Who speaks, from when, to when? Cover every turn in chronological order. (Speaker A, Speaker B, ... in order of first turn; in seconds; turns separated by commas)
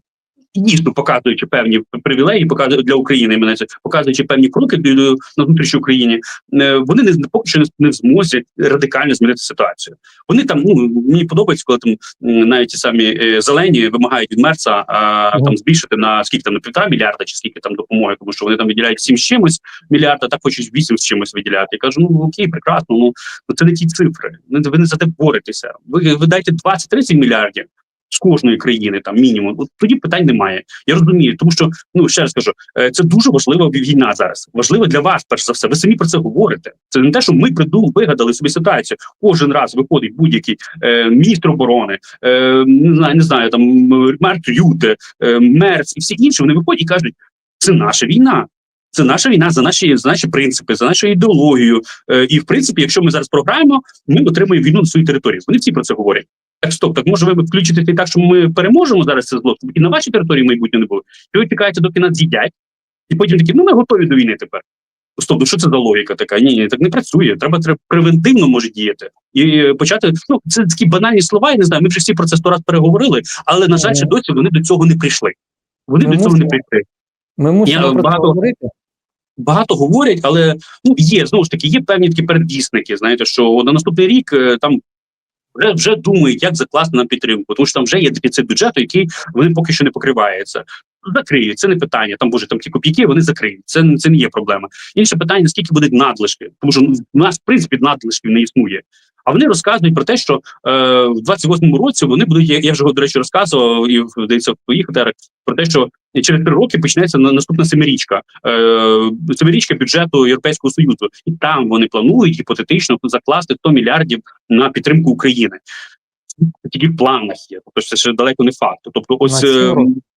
Speaker A: 0.5-62.5, Speaker A: 63.1-64.6, Speaker A: 65.2-75.3, Speaker B: 73.8-74.1, Speaker A: 75.9-76.8, Speaker B: 76.0-76.6, Speaker B: 77.4-78.7, Speaker A: 77.7-78.3, Speaker A: 79.4-84.8, Speaker A: 85.5-115.6, Speaker A: 116.4-120.0, Speaker B: 119.2-119.9